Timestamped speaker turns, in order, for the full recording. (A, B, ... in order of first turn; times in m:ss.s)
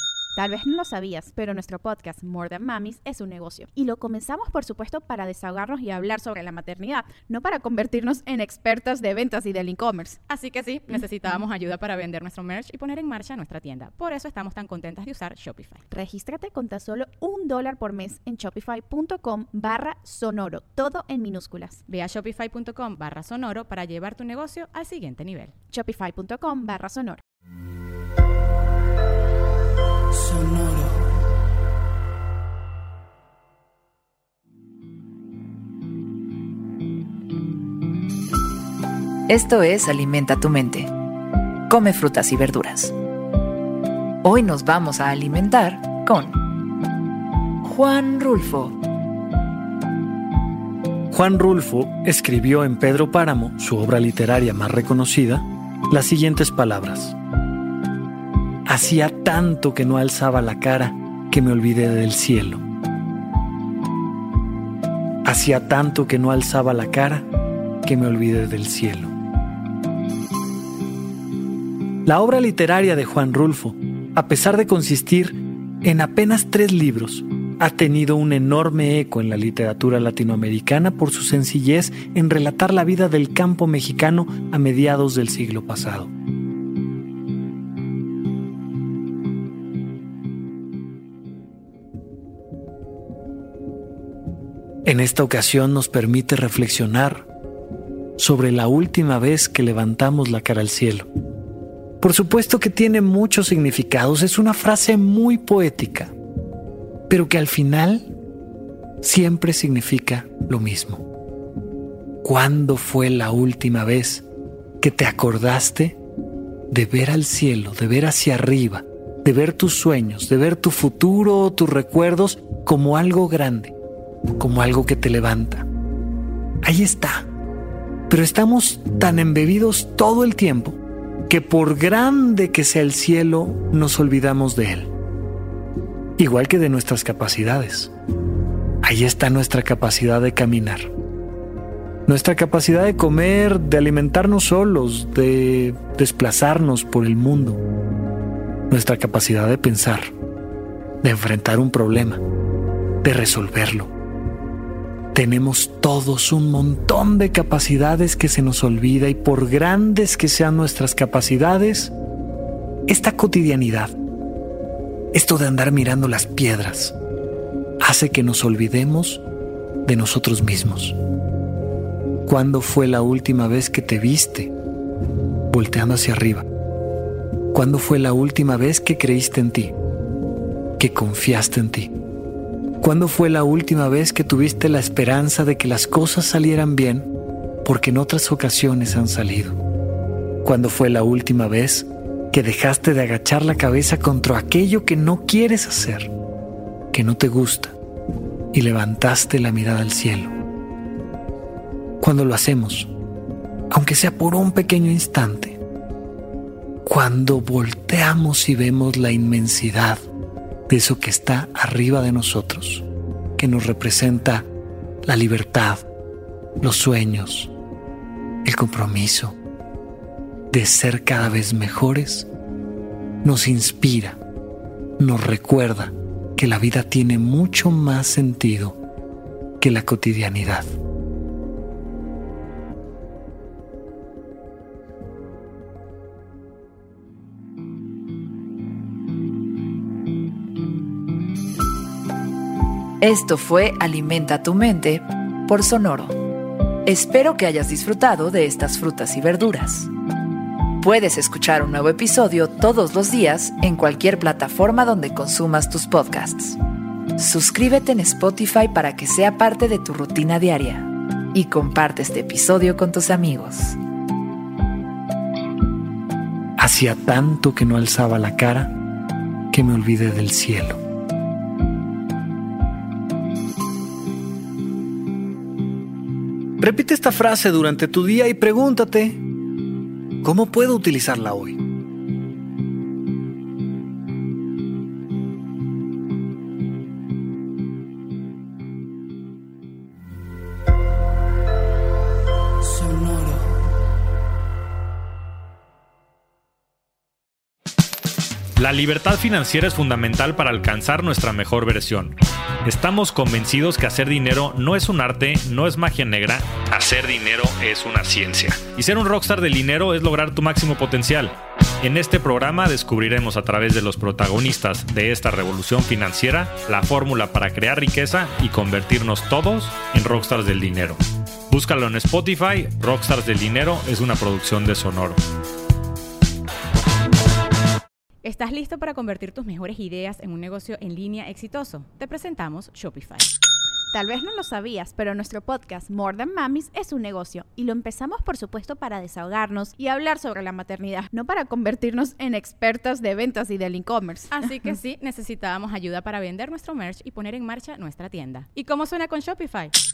0:00.4-0:10.2 A
0:10.3-0:15.9 B
0:15.9-0:21.8 A
0:21.9-0:25.6 B
0:25.7-0:27.2 A
0:39.3-0:40.9 C
0:41.7-0:42.9 C
0:44.2-0:46.4 C
0:47.6-0:48.8 C
0:51.1-0:57.2 D
0:58.7-1:02.6 D
1:05.2-1:07.3 D
1:07.8-1:09.1 D
1:12.1-1:26.1 D
1:34.9-1:37.3 D
1:38.2-1:41.1 D
1:42.0-1:46.1 D
1:47.1-1:48.1 D
1:49.0-1:51.0 D
1:52.2-1:54.2 D
1:54.8-1:56.0 D
1:56.7-2:03.7 D
2:04.4-2:05.7 D
2:06.6-2:07.3 D
2:08.1-2:14.9 D
2:16.2-2:17.9 D
2:18.8-2:20.9 D
2:22.1-2:27.6 D
2:28.7-2:30.1 D
2:31.0-2:32.2 D
2:33.0-2:33.9 D
2:35.1-2:41.9 D
2:42.9-2:44.0 D
2:45.1-2:47.0 D
2:47.8-2:49.2 D
2:49.9-2:51.0 D
2:52.3-2:54.5 D
2:55.5-2:56.5 D
2:57.5-2:59.7 D
3:00.8-3:01.9 D
3:02.8-3:07.1 D
3:07.6-3:09.6 D
3:10.4-3:16.1 D
3:16.9-3:17.8 D
3:18.5-3:20.3 D
3:22.0-3:22.9 D
3:23.7-3:25.6 D
3:26.8-3:30.0 D
3:30.7-3:32.8 D
3:33.4-3:34.5 D
3:35.0-3:35.8 D
3:36.6-3:37.5 D
3:38.4-3:39.4 D
3:40.5-3:42.3 D
3:43.2-3:44.2 D
3:45.0-3:48.8 D
3:49.6-3:50.7 D
4:03.0-4:06.2 C
4:06.8-4:09.9 C
4:10.8-4:16.6 C
4:17.2-4:23.8 C
4:26.6-4:28.7 D
4:29.5-4:30.8 D
4:36.6-4:39.2 D
4:40.2-4:41.6 D
4:58.6-5:21.0 E
5:21.5-5:25.2 E
5:28.2-5:33.3 B
5:33.9-5:44.3 A
5:44.3-5:49.7 B